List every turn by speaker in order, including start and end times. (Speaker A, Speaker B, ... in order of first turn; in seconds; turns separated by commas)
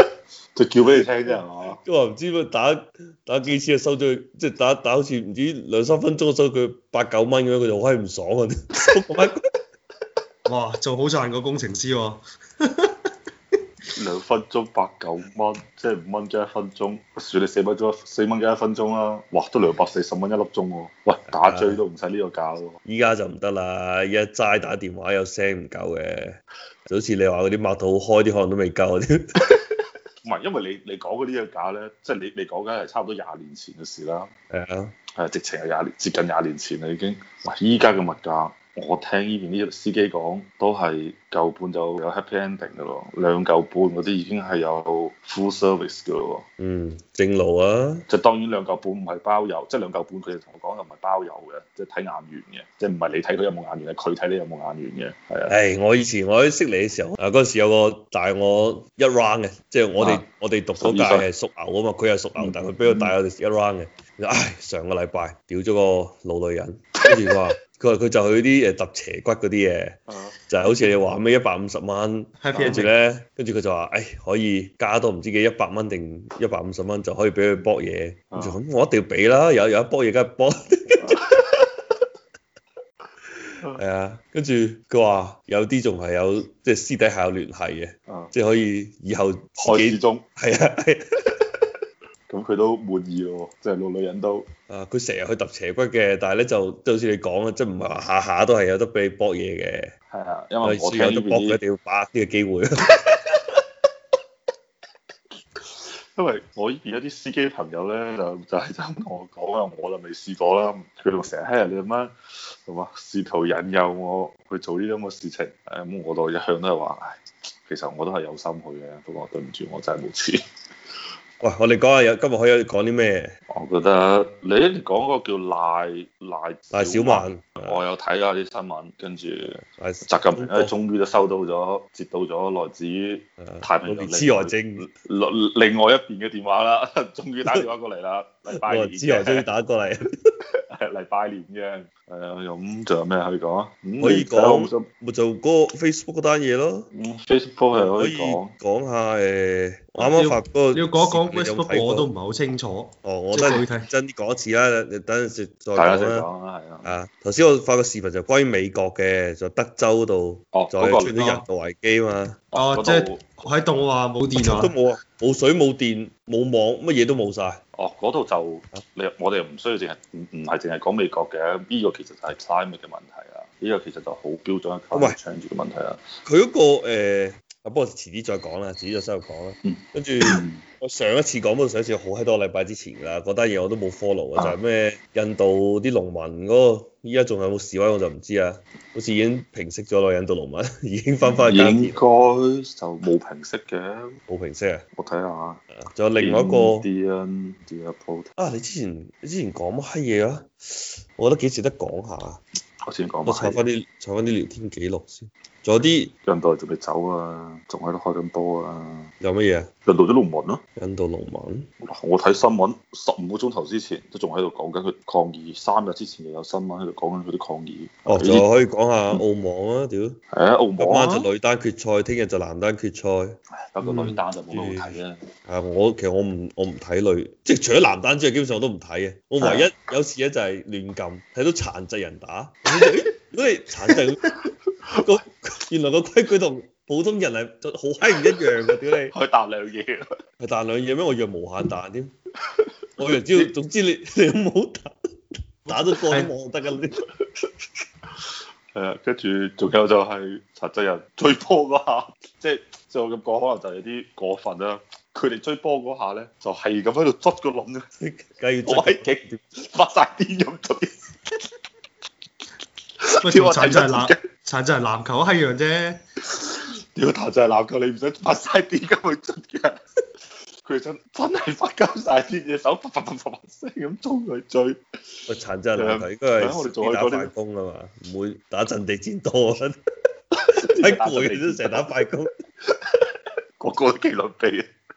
Speaker A: 0.5-1.8, Speaker B: 1.8-9.4, Speaker C: 10.4-12.9, Speaker A: 13.9-22.8, Speaker B: 21.4-21.8, Speaker B: 22.8-29.3, Speaker A: 30.2-34.3, Speaker B: 34.5-34.9, Speaker A: 35.2-46.4, Speaker B: 46.6-48.0, Speaker A: 48.1-55.5, Speaker B: 55.5-70.0, Speaker A: 60.0-60.2, Speaker A: 60.8-61.3, Speaker A: 62.4-63.1, Speaker A: 70.1-70.4, Speaker B: 70.5-81.4, Speaker C: 72.4-72.9, Speaker A: 72.6-72.9, Speaker A: 78.3-78.6, Speaker A: 81.0-81.6, Speaker B: 83.4-91.0, Speaker A: 88.1-88.3, Speaker A: 89.6-90.2, Speaker A: 92.3-94.5, Speaker B: 94.7-99.9, Speaker A: 100.1-101.6, Speaker B: 100.6-102.9, Speaker A: 106.1-112.1, Speaker A: 112.6-117.2, Speaker A: 117.7-120.4, Speaker B: 121.4-123.3, Speaker A: 123.5-139.4, Speaker B: 126.7-127.8, Speaker B: 129.8-130.7, Speaker B: 133.4-134.8, Speaker B: 138.6-140.1, Speaker A: 140.7-144.8, Speaker B: 144.0-146.9, Speaker A: 146.9-148.5, Speaker B: 147.8-152.1, Speaker C: 150.0-153.9, Speaker B: 153.0-156.3, Speaker A: 155.8-156.9, Speaker B: 156.8-162.4, Speaker A: 160.5-161.1, Speaker C: 161.2-161.4, Speaker A: 162.5-163.4, Speaker C: 162.5-164.7, Speaker B: 164.3-167.6, Speaker A: 167.8-176.0, Speaker B: 176.2-192.0, Speaker A: 179.7-180.6, Speaker A: 191.2-194.1, Speaker B: 194.3-194.8, Speaker A: 194.9-195.6, Speaker B: 195.8-196.8, Speaker A: 196.2-198.3, Speaker B: 198.4-202.4, Speaker A: 202.9-203.6, Speaker B: 203.2-206.1, Speaker A: 206.2-209.1, Speaker B: 209.2-209.7, Speaker A: 209.8-210.6, Speaker B: 210.8-211.7, Speaker A: 211.8-218.4, Speaker B: 218.1-220.2, Speaker A: 220.3-221.3, Speaker B: 220.8-239.1, Speaker A: 223.7-225.2, Speaker A: 229.4-229.7, Speaker A: 233.9-234.3, Speaker A: 239.1-240.1, Speaker B: 240.4-242.1, Speaker B: 243.0-244.9, Speaker B: 245.6-247.0, Speaker C: 245.7-246.3, Speaker A: 248.7-257.9, Speaker B: 258.0-259.4, Speaker A: 258.6-261.1, Speaker A: 263.0-264.2, Speaker C: 263.2-266.0, Speaker A: 266.3-269.8, Speaker A: 270.6-274.8, Speaker B: 275.3-279.8, Speaker A: 275.8-277.3, Speaker B: 280.5-282.3, Speaker A: 280.7-281.9, Speaker A: 283.6-284.6